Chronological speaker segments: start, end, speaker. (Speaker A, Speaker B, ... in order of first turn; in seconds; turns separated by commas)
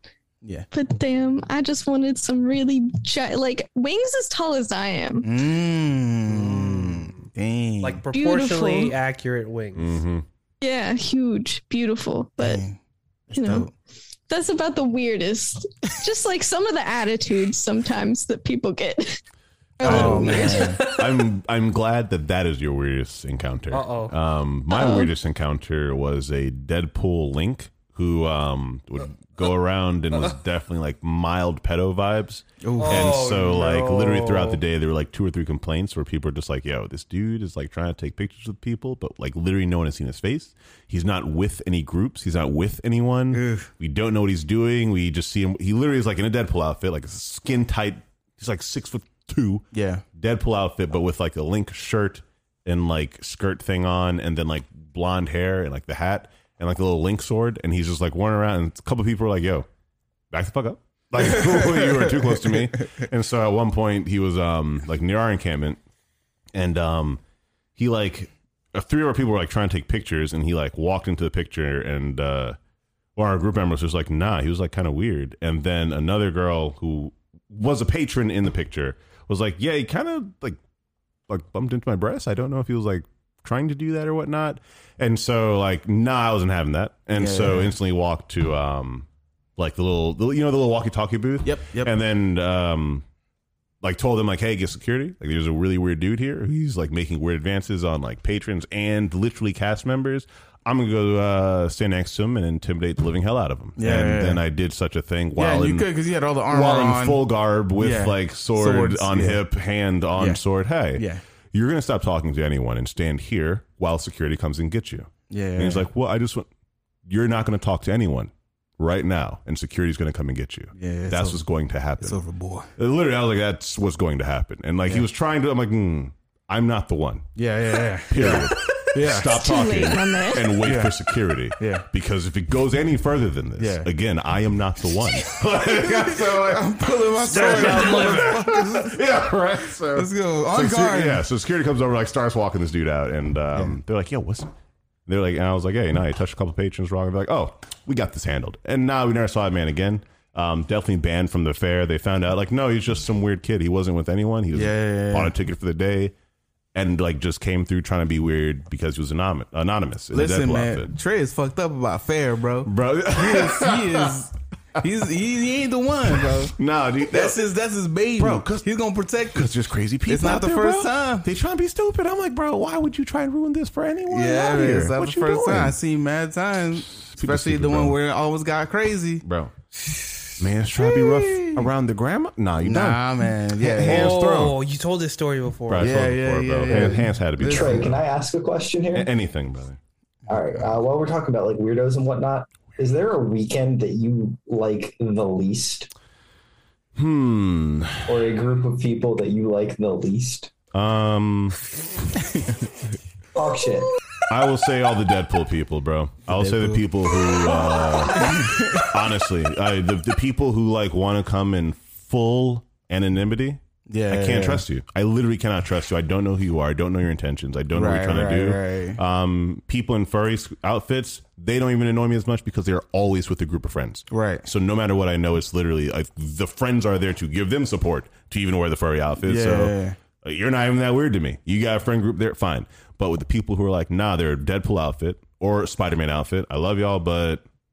Speaker A: 0.4-0.7, Speaker B: 0.7-5.3, Speaker A: 5.2-8.0, Speaker C: 6.3-7.2, Speaker C: 7.8-10.0, Speaker B: 8.1-8.9, Speaker D: 9.7-10.2, Speaker B: 10.6-12.6, Speaker A: 12.4-12.8, Speaker A: 13.3-13.7, Speaker B: 13.3-13.7, Speaker B: 14.3-19.2, Speaker B: 19.8-20.9, Speaker A: 19.8-20.8, Speaker D: 19.8-59.6, Speaker C: 23.7-24.1, Speaker B: 24.7-25.1, Speaker A: 32.6-33.3, Speaker C: 32.8-34.6, Speaker A: 43.3-43.7, Speaker A: 49.7-50.0, Speaker D: 60.3-65.8, Speaker A: 61.2-62.6, Speaker D: 66.5-67.2, Speaker D: 67.8-72.6, Speaker D: 73.2-80.6, Speaker D: 81.3-93.0, Speaker A: 87.1-87.8, Speaker A: 91.4-91.9, Speaker D: 93.8-105.9, Speaker A: 103.8-104.4, Speaker A: 105.3-107.2, Speaker D: 106.5-116.5, Speaker A: 107.8-109.4, Speaker A: 110.1-110.4, Speaker A: 110.9-111.2, Speaker A: 115.3-115.9, Speaker D: 117.0-122.2, Speaker A: 120.8-121.4, Speaker A: 122.0-122.7, Speaker D: 122.8-127.3, Speaker A: 127.3-129.4, Speaker D: 128.1-136.7, Speaker B: 129.2-130.6, Speaker A: 130.6-131.9, Speaker A: 133.6-133.9, Speaker A: 135.5-139.0, Speaker D: 137.2-144.5, Speaker C: 137.3-138.3, Speaker A: 139.9-141.2, Speaker A: 143.5-143.8, Speaker D: 145.1-156.1, Speaker A: 154.5-155.3, Speaker D: 156.7-160.9, Speaker A: 160.1-169.5, Speaker D: 162.6-164.2, Speaker D: 166.6-167.4, Speaker D: 168.2-168.7, Speaker D: 169.3-175.8, Speaker A: 170.1-171.3, Speaker A: 174.1-181.7, Speaker D: 177.1-178.0, Speaker D: 179.2-179.5, Speaker D: 180.4-184.6, Speaker A: 182.6-184.2, Speaker C: 183.8-186.0, Speaker D: 185.7-188.0, Speaker A: 185.8-187.9, Speaker E: 187.4-189.1, Speaker D: 188.9-189.8, Speaker E: 190.3-195.9, Speaker D: 196.9-198.2, Speaker E: 198.1-200.5, Speaker D: 200.7-201.7, Speaker E: 203.3-203.9, Speaker D: 204.3-237.4, Speaker A: 206.3-206.9, Speaker A: 208.1-208.9, Speaker A: 213.9-214.6, Speaker A: 217.7-219.0, Speaker A: 224.1-224.5, Speaker A: 229.2-230.0